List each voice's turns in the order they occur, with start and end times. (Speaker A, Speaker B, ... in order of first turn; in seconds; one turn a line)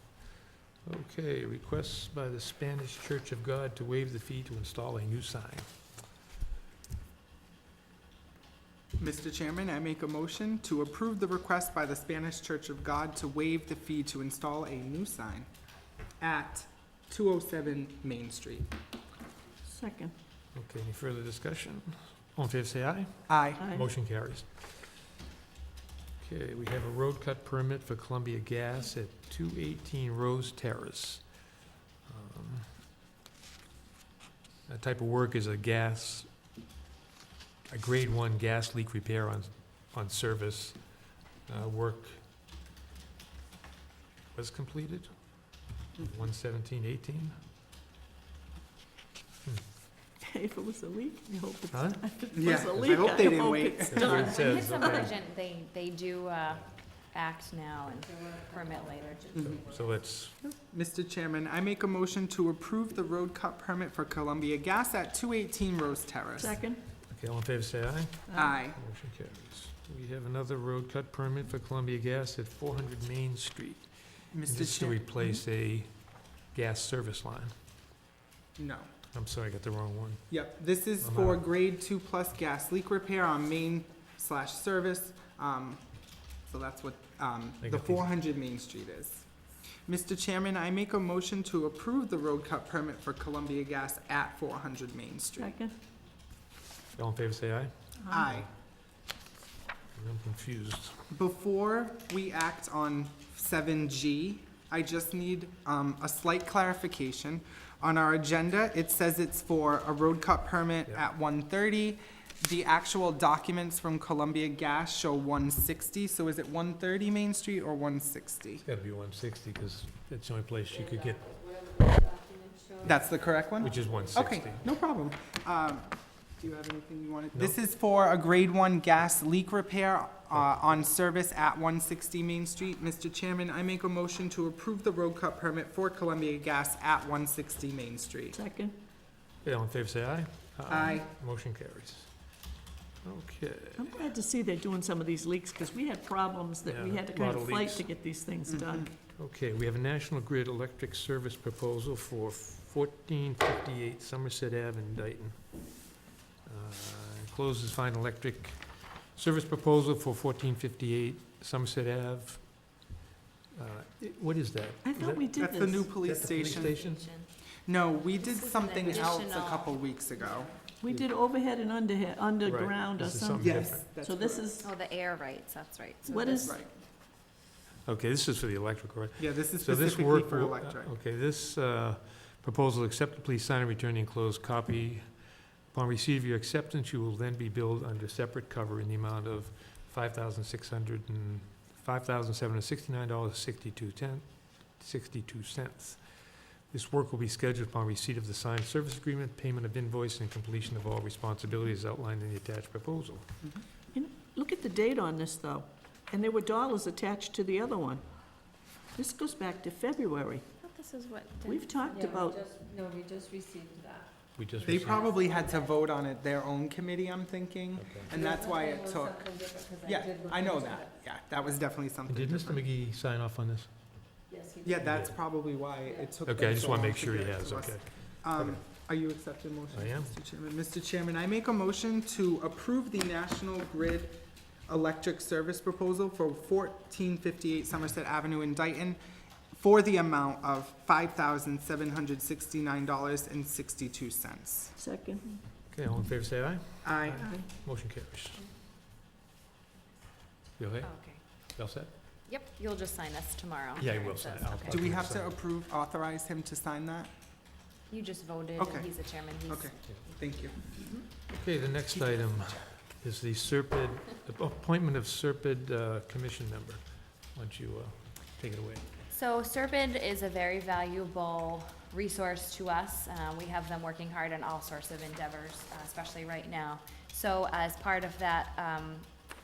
Speaker A: 0.8-5.7
Speaker B: 9.0-15.5
Speaker B: 16.2-18.7
Speaker C: 19.7-20.1
Speaker A: 20.5-24.7
Speaker B: 23.3-23.6
Speaker C: 23.6-23.9
Speaker A: 26.2-31.4
Speaker A: 32.1-32.7
Speaker A: 34.7-36.3
Speaker A: 37.7-42.2
Speaker A: 44.3-45.1
Speaker A: 46.0-47.3
Speaker C: 50.2-55.1
Speaker A: 51.7-52.0
Speaker B: 52.3-54.3
Speaker A: 53.9-55.2
Speaker D: 54.0-59.3
Speaker E: 58.0-60.0
Speaker B: 59.3-59.6
Speaker A: 59.4-60.4
Speaker B: 60.5-66.6
Speaker C: 66.4-66.8
Speaker A: 67.0-77.5
Speaker B: 68.3-68.8
Speaker B: 74.3-75.0
Speaker B: 78.6-78.9
Speaker A: 79.1-80.4
Speaker B: 80.3-85.8
Speaker A: 81.0-81.4
Speaker B: 86.5-89.3
Speaker A: 87.6-88.1
Speaker B: 89.9-95.6
Speaker C: 95.4-95.7
Speaker A: 97.0-98.4
Speaker B: 98.1-98.5
Speaker A: 100.0-101.1
Speaker B: 101.1-118.7
Speaker A: 118.7-121.2
Speaker E: 120.9-123.0
Speaker B: 122.8-138.4
Speaker A: 123.6-124.7
Speaker A: 130.4-130.6
Speaker C: 138.3-138.8
Speaker A: 139.4-142.1
Speaker B: 140.7-141.1
Speaker A: 143.0-143.9
Speaker C: 143.8-148.9
Speaker A: 146.7-147.9
Speaker B: 148.5-148.9
Speaker A: 149.2-162.8
Speaker A: 163.5-167.1
Speaker C: 164.8-165.9
Speaker B: 165.4-166.8
Speaker D: 166.2-167.3
Speaker B: 167.7-170.5
Speaker D: 168.2-170.5
Speaker C: 170.8-174.7
Speaker A: 172.4-173.9
Speaker B: 173.4-174.6
Speaker D: 174.6-176.5
Speaker C: 176.1-176.6
Speaker B: 176.2-176.7
Speaker A: 177.8-203.3
Speaker B: 179.2-180.9
Speaker C: 203.9-208.0
Speaker C: 208.9-210.5
Speaker D: 210.6-211.6
Speaker C: 211.4-212.4
Speaker E: 211.8-214.1
Speaker A: 214.4-215.1
Speaker B: 214.6-222.7
Speaker D: 214.8-215.8
Speaker A: 217.8-218.1
Speaker E: 218.1-221.0
Speaker A: 222.1-223.8
Speaker E: 224.3-224.8
Speaker B: 224.6-239.0
Speaker A: 224.8-225.2
Speaker E: 225.8-226.1
Speaker A: 226.3-228.6
Speaker A: 229.7-230.2
Speaker B: 239.5-244.8
Speaker C: 244.8-245.4
Speaker A: 245.7-248.4
Speaker B: 246.8-247.3
Speaker A: 250.6-251.9
Speaker D: 250.8-251.2
Speaker D: 252.3-254.8
Speaker A: 253.8-255.4
Speaker B: 254.7-257.1
Speaker D: 257.9-260.0
Speaker B: 258.6-260.8
Speaker D: 260.8-261.1
Speaker A: 261.3-268.9
Speaker B: 261.9-262.7
Speaker D: 269.1-279.1